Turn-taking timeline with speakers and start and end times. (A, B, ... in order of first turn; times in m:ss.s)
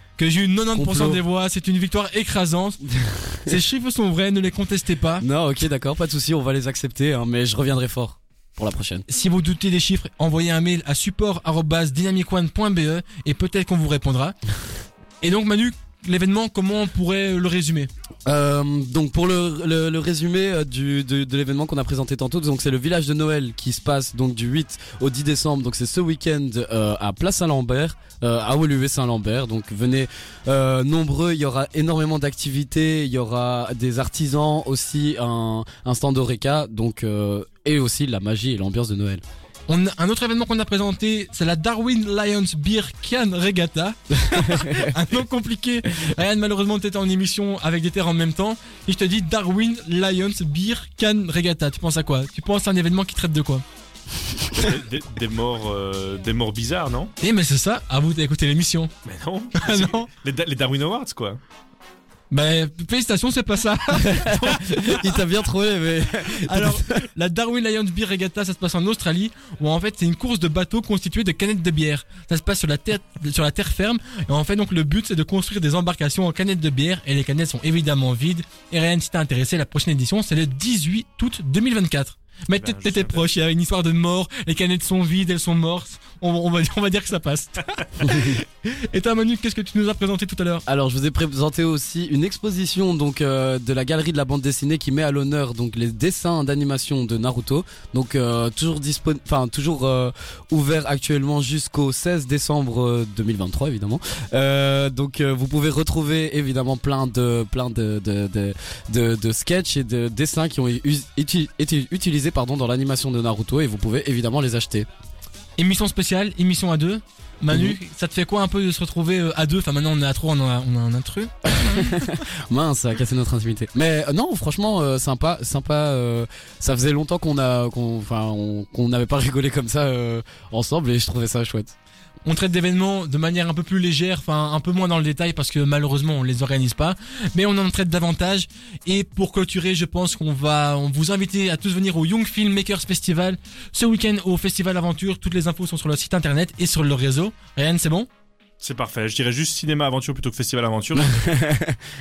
0:00.2-0:02.8 A
0:00.7-0:01.2 B
0:02.9-0:03.6 B
0:03.4-0:05.2 A
0:05.2-0:09.0 B
0:09.1-0:14.4 A
0:15.2-0:17.9 A
0:18.2-0:39.2 B
0:39.7-0:53.6 A
0:44.2-0:45.0 B
0:54.5-0:57.1 C
0:57.2-0:58.9 A
0:59.0-1:01.4 C
0:59.6-1:00.1 A
1:02.3-1:05.0 A
1:04.0-1:07.0 B
1:06.3-1:30.6 A
1:22.6-1:23.3 C
1:28.1-1:28.4 B
1:30.7-1:54.9 B
1:55.6-2:02.1 A
1:57.5-1:57.8 B
2:01.4-2:11.8 B
2:12.2-2:28.1 A
2:28.6-2:31.2 C
2:31.0-2:31.8 B